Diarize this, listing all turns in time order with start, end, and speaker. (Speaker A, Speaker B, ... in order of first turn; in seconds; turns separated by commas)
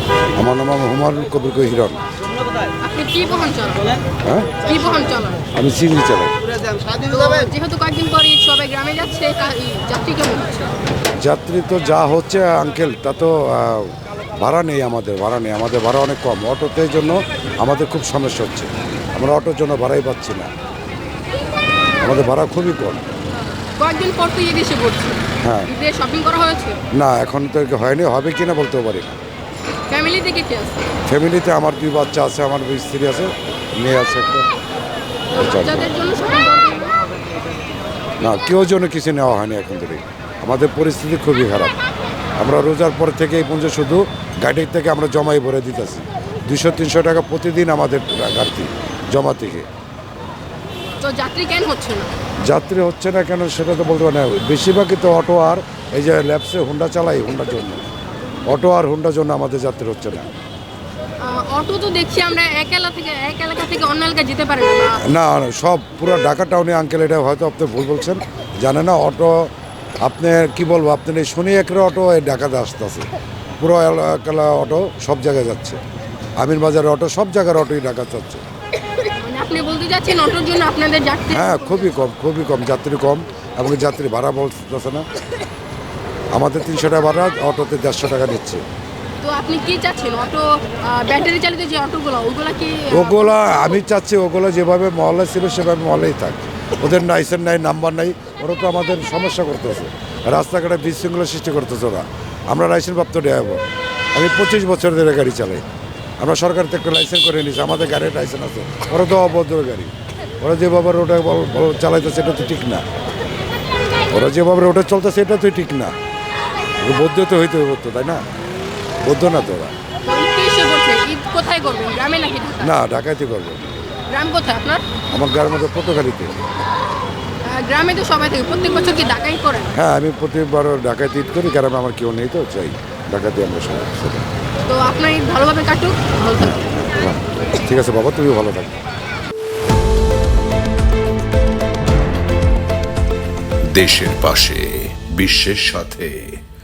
Speaker A: 0.3-2.0, Speaker B: 2.8-3.9, Speaker A: 4.2-4.5, Speaker B: 4.6-5.4, Speaker A: 5.5-6.3, Speaker B: 6.9-10.7, Speaker A: 11.1-20.5, Speaker A: 22.0-23.0, Speaker B: 23.8-26.8, Speaker A: 25.4-25.7, Speaker A: 26.9-29.1, Speaker B: 29.9-30.8, Speaker A: 31.1-34.5, Speaker B: 35.3-37.0, Speaker A: 35.3-36.0, Speaker A: 38.2-41.8, Speaker A: 42.4-49.6, Speaker B: 51.0-52.1, Speaker A: 52.4-57.8, Speaker A: 58.5-60.3, Speaker B: 61.2-65.0, Speaker A: 65.0-69.5, Speaker A: 70.0-73.0, Speaker A: 73.6-75.8, Speaker A: 76.4-78.4, Speaker B: 79.2-81.9, Speaker A: 81.3-85.0, Speaker A: 86.3-88.6, Speaker B: 89.2-93.6, Speaker A: 92.9-103.6, Speaker A: 104.1-105.6, Speaker A: 106.2-112.8, Speaker A: 114.1-115.9, Speaker A: 116.8-118.2, Speaker A: 119.0-119.7, Speaker B: 120.0-122.7, Speaker A: 122.6-123.6, Speaker B: 124.1-124.8, Speaker A: 125.1-126.3, Speaker B: 127.4-129.7, Speaker A: 129.7-134.2, Speaker B: 134.7-136.6, Speaker A: 136.4-138.7, Speaker C: 143.7-146.4